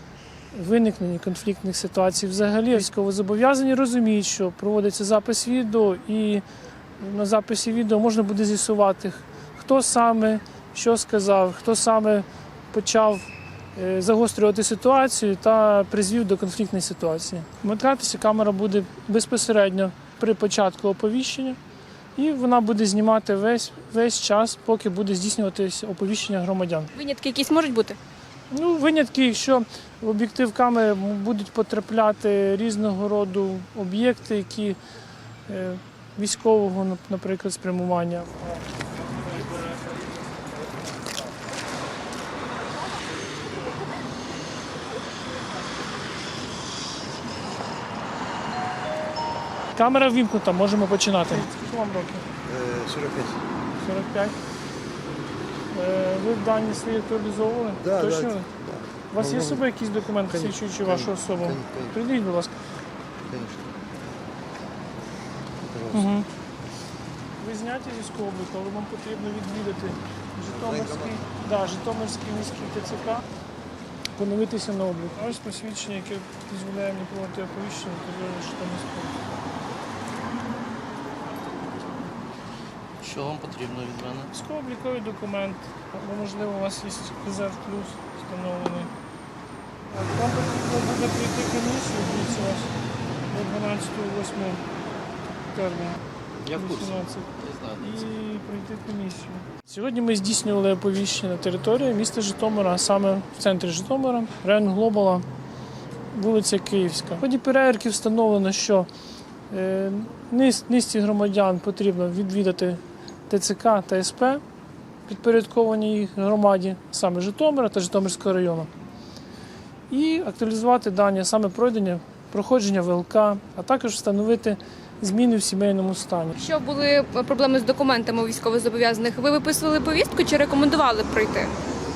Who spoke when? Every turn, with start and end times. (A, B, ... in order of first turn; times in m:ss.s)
0:00.5-0:06.4 A
0:07.0-0:13.2 A
0:13.8-0:21.6 A
0:22.2-0:26.9 A
0:26.9-0:28.0 B
0:28.5-0:34.8 A
0:35.5-0:38.5 A
0:49.7-0:52.2 A
0:52.5-0:53.4 C
0:53.8-0:54.3 A
0:55.7-0:58.5 A
0:57.8-0:59.6 C
0:59.1-1:02.5 A
1:00.2-1:02.0 C
1:03.3-1:03.7 C
1:05.6-1:06.1 C
1:05.9-1:06.2 A
1:07.4-1:13.2 A
1:10.4-1:11.2 C
1:14.2-1:19.2 A
1:23.0-1:24.3 D
1:24.3-1:28.9 A
1:29.9-1:32.7 A
1:33.3-1:34.6 A
1:35.5-1:36.0 A
1:36.4-1:38.0 D
1:36.5-1:37.3 A
1:37.8-1:45.2 A
1:46.1-1:48.9 A
1:49.5-1:54.4 A
1:55.0-1:58.7 A
1:59.9-2:06.3 A
2:06.4-2:11.5 B